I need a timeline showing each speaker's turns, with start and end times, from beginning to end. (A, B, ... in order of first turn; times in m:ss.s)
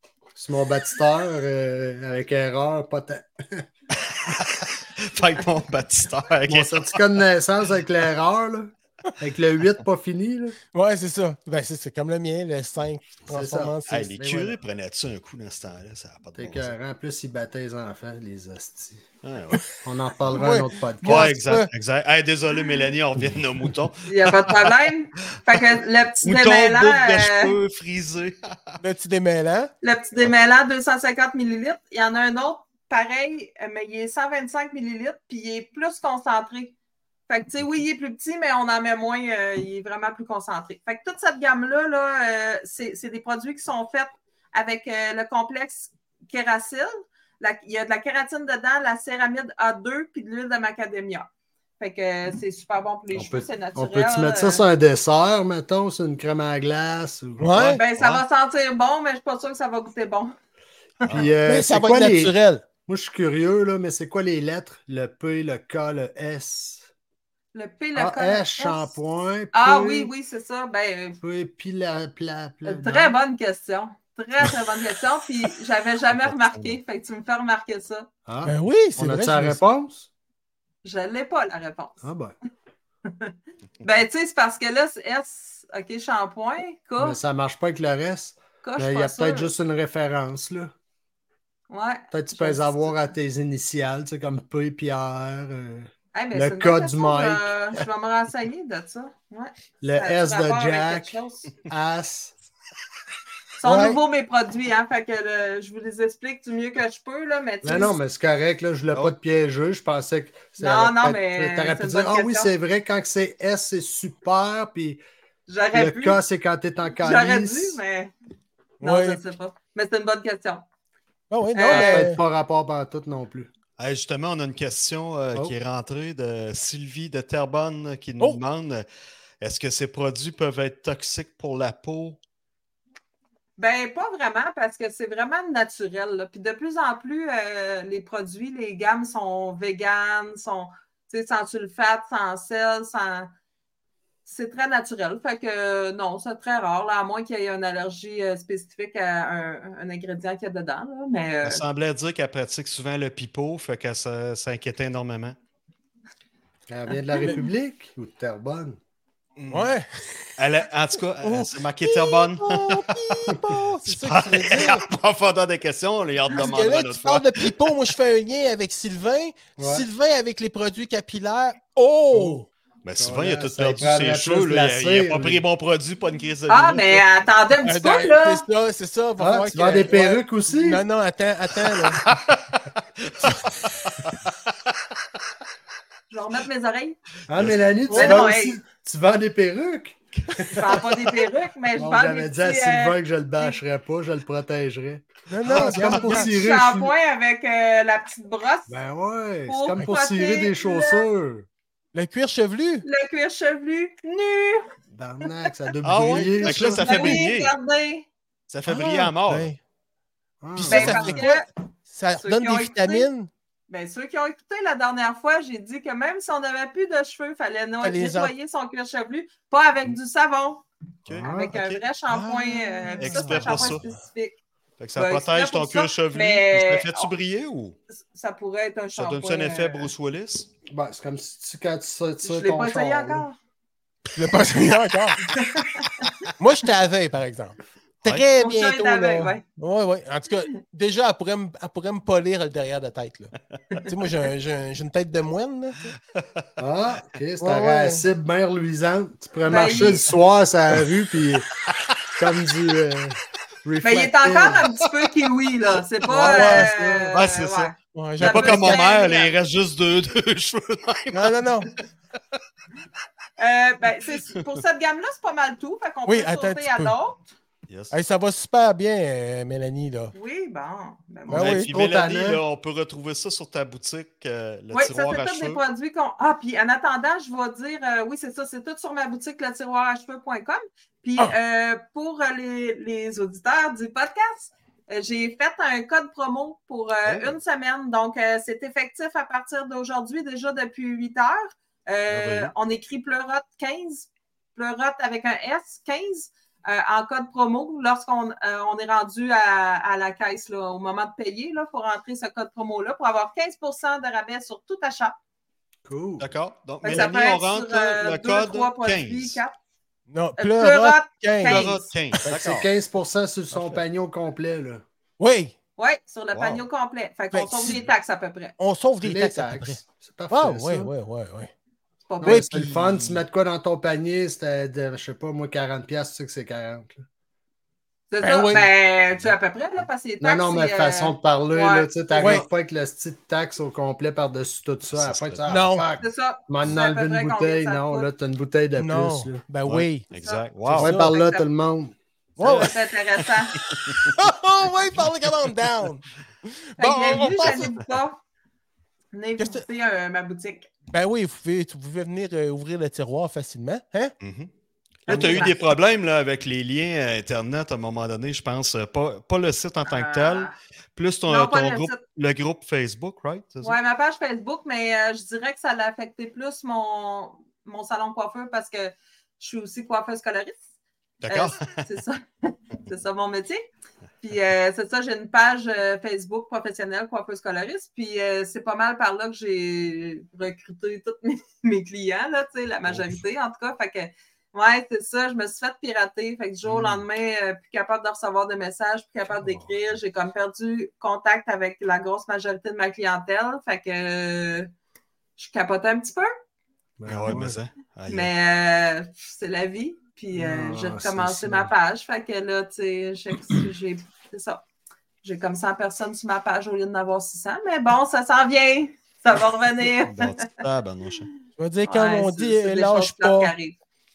0:00.4-0:03.7 A
0:04.1-0:07.0 B
0:06.5-0:10.6 A
0:10.7-0:14.1 C
0:13.3-0:14.6 A
0:13.9-0:16.7 B
0:16.4-0:19.0 A
0:19.2-0:19.8 B
0:19.8-0:21.3 A
0:20.3-0:21.7 C
0:21.0-0:24.8 B
0:24.1-0:27.6 D
0:26.2-0:28.8 B
0:28.8-0:29.7 C
0:29.8-0:36.8 D
0:37.3-0:51.3 D
0:51.8-0:54.6 D
0:53.1-0:57.5 A
0:57.4-0:57.8 C
0:57.6-0:58.2 B
0:57.6-1:00.4 D
1:01.1-1:01.3 B
1:01.1-1:02.4 A
1:01.5-1:02.6 C
1:02.9-1:06.9 A
1:07.5-1:09.0 D
1:08.0-1:10.1 A
1:09.5-1:11.2 D
1:11.2-1:13.2 A
1:12.6-1:18.1 D
1:16.2-1:16.8 B
1:18.3-1:20.1 A
1:18.4-1:19.6 C
1:20.8-1:22.0 D
1:22.0-1:22.4 A
1:23.1-1:27.2 D
1:27.0-1:30.7 A
1:28.6-1:29.5 D
1:31.7-1:33.0 D
1:32.1-1:37.8 A
1:36.1-1:41.5 D
1:39.8-1:42.3 A
1:43.6-1:48.0 D
1:43.6-1:44.0 C
1:47.6-1:55.0 A
1:50.6-1:52.5 D
1:55.5-1:56.2 D
1:55.7-1:57.8 A
1:57.0-1:58.1 D
1:58.8-1:59.2 C
1:58.8-2:00.6 D
2:01.3-2:02.2 C
2:01.6-2:02.1 D
2:01.7-2:03.5 A
2:03.8-2:08.9 B
2:09.4-2:12.2 B
2:13.6-2:23.3 D
2:24.3-2:31.6 D
2:31.4-2:35.4 B
2:36.7-2:38.8 A
2:39.4-2:39.7 B
2:39.5-2:40.3 C
2:40.4-2:47.6 B
2:41.2-2:44.8 C
2:46.3-2:52.5 C
2:49.6-2:49.9 A
2:52.1-2:52.4 A
2:52.8-2:57.0 B
2:53.0-2:55.4 A
2:56.5-2:58.4 D
2:57.6-3:02.0 C
2:59.2-3:00.8 A
3:01.9-3:04.3 B
3:06.1-3:07.0 D
3:07.3-3:11.0 A
3:07.9-3:08.2 C
3:07.9-3:08.6 D
3:10.5-3:13.6 D
3:11.8-3:16.9 A
3:15.3-3:16.3 C
3:15.4-3:16.0 B
3:15.8-3:18.8 D
3:18.7-3:21.5 A
3:19.5-3:21.1 D
3:21.9-3:22.9 C
3:22.8-3:24.7 D
3:24.9-3:27.1 A
3:25.8-3:27.5 B
3:26.4-3:28.1 D
3:28.5-3:29.5 B
3:28.7-3:29.6 C
3:30.4-3:31.2 A
3:30.6-3:33.3 C
3:30.7-3:31.5 D
3:32.2-3:33.1 D
3:33.7-3:40.6 D
3:37.8-3:38.3 C
3:41.1-3:41.8 B
3:41.1-3:41.5 A
3:41.2-3:44.4 D
3:42.1-3:44.0 C
3:43.0-3:43.8 B
3:44.8-3:47.8 B
3:45.0-3:47.1 D
3:48.1-3:49.9 D
3:49.0-3:50.5 B
3:50.7-3:53.3 A
3:52.2-3:53.4 D
3:54.1-3:55.2 C
3:55.3-3:56.1 D
3:56.4-4:03.3 C
3:58.4-3:59.4 D
4:03.9-4:05.9 C
4:06.6-4:11.5 A
4:07.4-4:08.0 C
4:09.4-4:10.1 D
4:12.2-4:14.7 A
4:13.8-4:19.4 D
4:16.0-4:17.2 A
4:16.2-4:16.7 C
4:17.1-4:21.4 B
4:18.0-4:18.8 C
4:21.1-4:21.7 C
4:23.4-4:27.2 D
4:24.3-4:24.6 B
4:26.1-4:27.0 C
4:27.7-4:28.0 B
4:27.9-4:30.1 C
4:30.2-4:31.6 D
4:31.3-4:32.4 A
4:31.3-4:31.7 C
4:31.3-4:35.6 B
4:34.7-5:05.2 D
4:47.0-4:47.3 B
4:52.1-4:52.5 B
5:05.8-5:06.3 A
5:06.2-5:09.4 B
5:06.8-5:09.5 D
5:10.1-5:11.8 C
5:10.4-5:11.9 D
5:11.4-5:12.7 B
5:12.2-5:14.8 A
5:15.2-5:15.5 C
5:15.8-5:18.6 D
5:16.3-5:16.6 B
5:17.3-5:17.8 C
5:18.6-5:21.5 C
5:19.0-5:20.9 A
5:22.1-5:22.5 D
5:22.2-5:27.0 A
5:22.2-5:23.2 C
5:28.1-5:32.4 D
5:28.2-5:28.6 C
5:28.3-5:28.6 A
5:30.2-5:39.4 A
5:32.2-5:32.5 C
5:34.9-5:35.5 B
5:35.5-5:35.9 C
5:36.0-5:38.1 D
5:38.8-5:40.1 C
5:39.7-5:41.0 B
5:40.2-5:41.4 D
5:40.7-5:41.1 C
5:40.7-5:42.0 A
5:42.4-5:42.7 C
5:42.4-5:43.6 D
5:42.4-5:42.8 B
5:43.6-5:44.2 B
5:44.2-5:47.7 C
5:46.8-5:48.2 D
5:47.1-5:47.9 B
5:49.1-5:50.7 D
5:49.4-5:49.6 C
5:50.9-5:54.1 C
5:54.2-5:54.5 B
5:55.1-6:03.8 B
5:55.1-5:55.6 D
5:55.1-5:55.5 C
5:59.9-6:00.6 D
6:01.3-6:02.0 D
6:03.6-6:10.6 D
6:11.2-6:11.8 B
6:11.3-6:13.6 D
6:14.2-6:34.7 D
6:22.9-6:23.2 B
6:26.6-6:27.0 B
6:35.4-6:36.3 D
6:37.0-6:37.6 A
6:37.1-6:38.3 B
6:38.1-6:44.6 D
6:40.3-6:41.7 A
6:45.2-6:50.4 D
6:50.0-6:51.3 B
6:51.6-6:53.5 C
6:51.9-6:53.8 D